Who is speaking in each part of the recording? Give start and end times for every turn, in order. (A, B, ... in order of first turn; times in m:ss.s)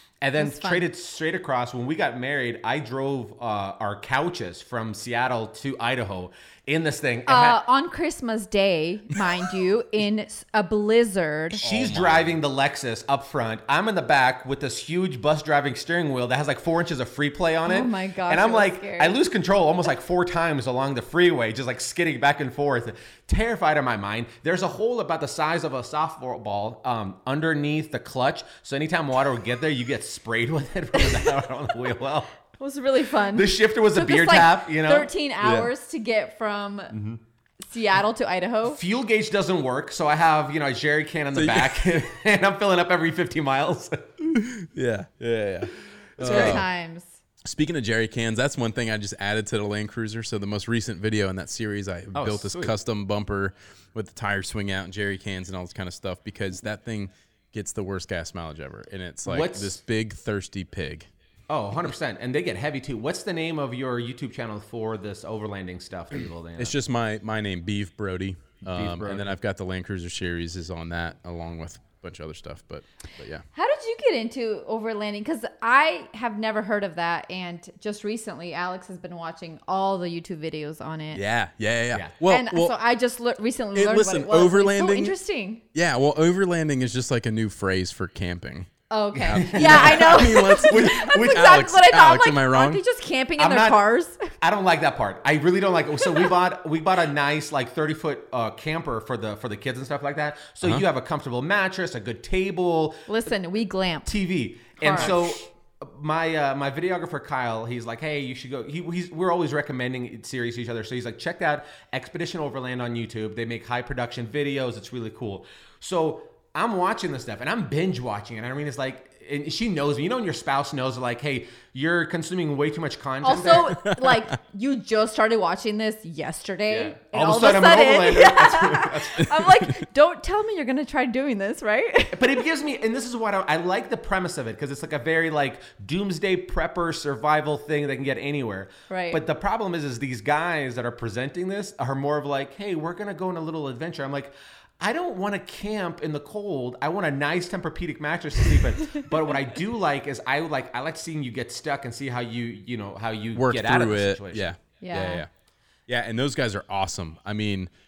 0:00.2-0:07.6 A
0:00.4-0:00.9 B
0:07.3-0:11.6 B
0:11.6-0:12.4 C
0:11.6-0:32.3 A
0:17.7-0:19.2 B
0:32.6-0:37.0 B
0:33.3-0:35.1 A
0:35.4-0:35.7 C
0:36.9-0:37.2 A
0:37.7-0:38.8 B
0:38.7-0:44.1 A
0:41.3-0:42.0 C
0:44.2-0:46.7 C
0:46.2-0:46.6 A
0:46.2-0:47.2 B
0:47.4-1:01.1 C
0:52.1-0:52.8 A
0:59.2-0:59.8 A
1:01.5-1:06.8 A
1:06.6-1:13.4 C
1:08.6-1:09.4 A
1:13.5-1:21.2 B
1:21.1-1:22.8 C
1:22.3-1:25.6 B
1:23.8-1:25.1 C
1:25.7-1:28.7 C
1:28.9-1:34.3 B
1:29.2-1:31.5 A
1:29.2-1:32.8 C
1:33.4-1:33.8 A
1:34.4-1:43.1 A
1:43.1-1:44.1 B
1:44.0-2:03.7 A
1:44.8-1:45.4 B
2:03.2-2:12.4 B
2:03.8-2:04.3 C
2:06.7-2:09.4 A
2:12.1-2:34.5 A
2:18.9-2:19.2 B
2:33.4-2:35.3 C
2:34.8-2:35.2 B
2:35.9-2:37.7 C